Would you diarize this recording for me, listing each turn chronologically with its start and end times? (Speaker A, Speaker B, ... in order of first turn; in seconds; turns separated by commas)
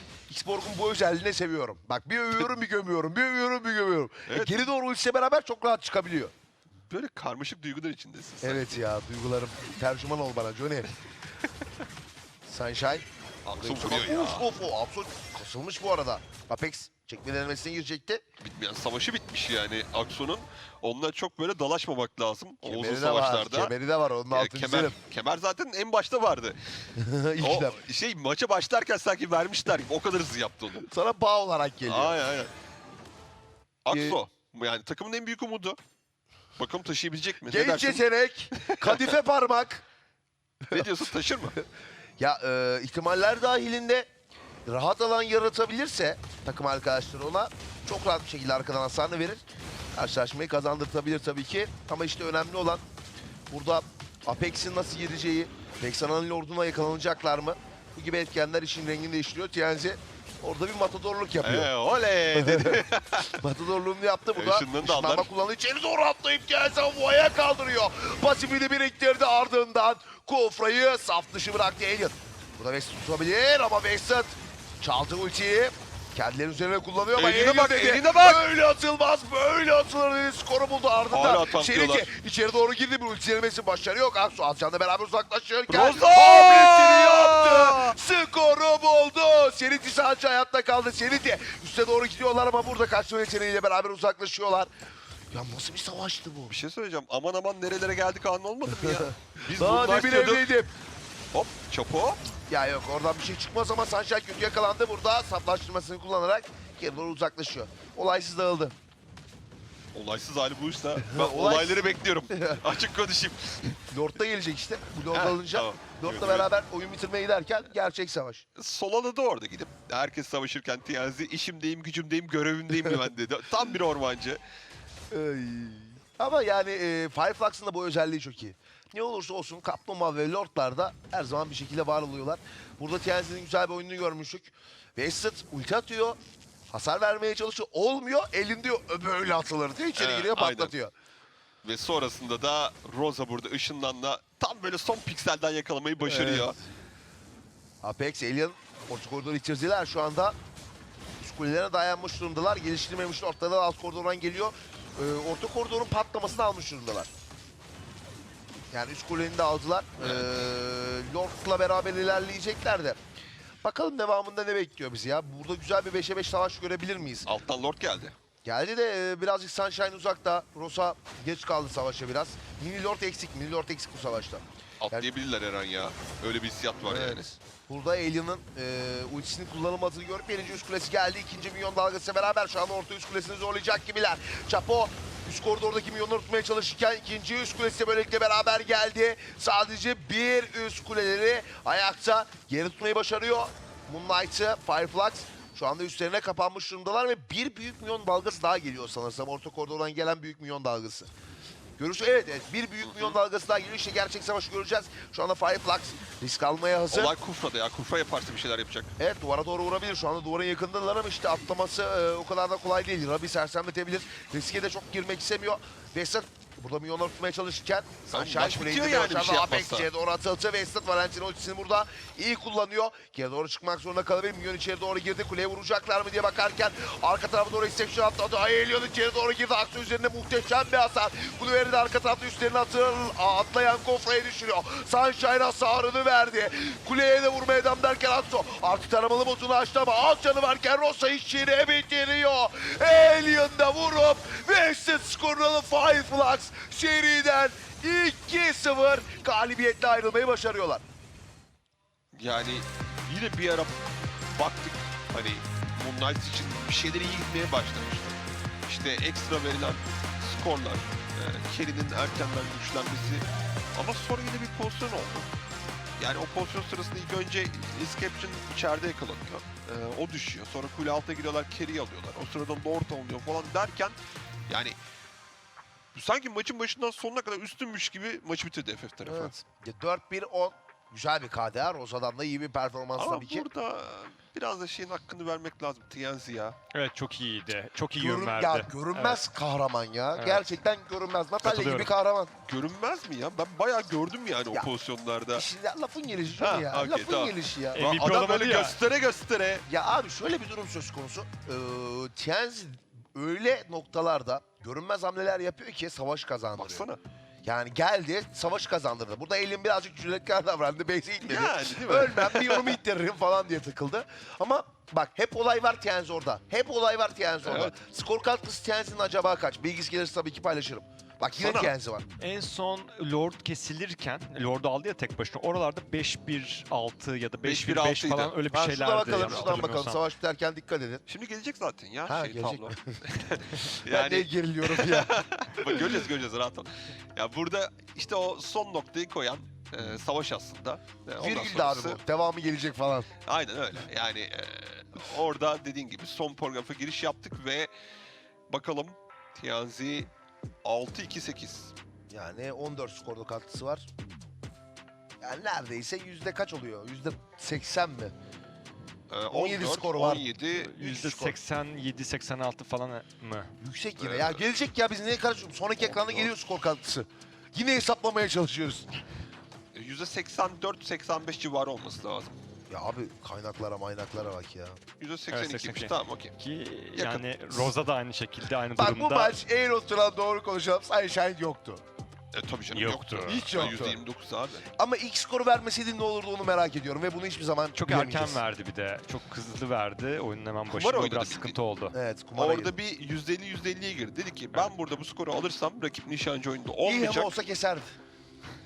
Speaker A: 0.3-6.3, Speaker B: 4.3-4.6, Speaker B: 6.9-8.8, Speaker A: 8.4-10.9, Speaker A: 12.4-13.1, Speaker B: 13.4-14.4, Speaker A: 13.6-18.2, Speaker B: 18.4-23.7, Speaker A: 22.6-24.9, Speaker B: 24.3-26.9, Speaker A: 26.9-27.8, Speaker B: 27.4-30.9, Speaker A: 30.8-32.2, Speaker B: 31.9-32.5, Speaker B: 33.8-35.8, Speaker A: 33.9-34.2, Speaker B: 36.6-38.0, Speaker A: 37.5-39.8, Speaker B: 38.5-39.1, Speaker B: 40.7-41.5, Speaker A: 42.2-44.1, Speaker A: 44.6-52.8, Speaker A: 53.5-61.7, Speaker B: 61.4-63.4, Speaker A: 62.3-94.7, Speaker B: 64.3-65.3, Speaker B: 77.2-78.4, Speaker B: 81.1-82.1, Speaker B: 85.7-87.9, Speaker A: 95.3-96.5, Speaker B: 96.5-100.5, Speaker A: 98.7-100.7, Speaker B: 101.3-102.2, Speaker A: 102.5-108.7, Speaker B: 109.9-113.8, Speaker A: 111.0-112.6, Speaker A: 113.9-118.4, Speaker B: 115.1-116.5, Speaker B: 118.5-124.4, Speaker A: 125.1-136.2, Speaker A: 136.7-140.9, Speaker B: 139.9-140.7, Speaker B: 141.6-146.6, Speaker A: 146.0-146.5, Speaker A: 147.8-150.3, Speaker A: 151.2-157.1, Speaker A: 158.7-163.0, Speaker B: 160.0-160.2, Speaker A: 163.6-167.3, Speaker B: 167.2-168.2, Speaker A: 168.4-175.1, Speaker B: 174.8-177.4, Speaker A: 176.8-201.1, Speaker A: 201.8-207.1, Speaker B: 202.8-203.2, Speaker B: 206.9-208.9, Speaker A: 209.0-250.8, Speaker B: 218.1-219.9, Speaker B: 252.1-253.7, Speaker B: 254.3-263.2, Speaker B: 263.7-265.3, Speaker B: 266.0-274.0, Speaker B: 274.5-274.8, Speaker B: 275.9-279.3, Speaker A: 279.1-283.5, Speaker B: 283.0-286.6, Speaker C: 286.7-289.2, Speaker A: 288.0-292.3, Speaker C: 290.1-290.4, Speaker C: 291.4-291.9, Speaker B: 292.4-295.5, Speaker A: 295.3-297.8, Speaker B: 296.4-299.6, Speaker C: 297.7-298.8, Speaker A: 299.7-306.9, Speaker B: 306.6-307.0, Speaker A: 307.4-322.0, Speaker B: 311.2-312.8, Speaker B: 317.4-317.7, Speaker B: 321.4-321.7, Speaker C: 322.2-330.0, Speaker B: 327.4-328.3, Speaker A: 328.5-331.0, Speaker B: 329.0-329.7, Speaker B: 331.1-342.0, Speaker A: 332.1-333.0, Speaker A: 333.7-335.7, Speaker A: 341.2-343.1, Speaker B: 343.2-347.7, Speaker B: 348.5-350.1, Speaker B: 350.6-351.7, Speaker A: 352.1-353.9, Speaker A: 355.2-358.1, Speaker B: 359.1-361.4, Speaker A: 359.3-360.2, Speaker C: 360.5-363.5, Speaker A: 363.6-368.9, Speaker B: 364.0-364.4, Speaker B: 365.8-366.3, Speaker B: 369.7-372.4, Speaker A: 372.7-374.8, Speaker B: 375.0-376.3, Speaker C: 375.3-379.4, Speaker B: 376.9-377.7, Speaker A: 378.8-381.8, Speaker B: 382.3-384.7, Speaker C: 382.7-383.5, Speaker A: 383.2-384.0, Speaker A: 384.8-388.4, Speaker C: 387.7-391.9, Speaker B: 390.7-391.6, Speaker A: 391.9-392.7, Speaker B: 392.3-397.3, Speaker A: 396.8-397.9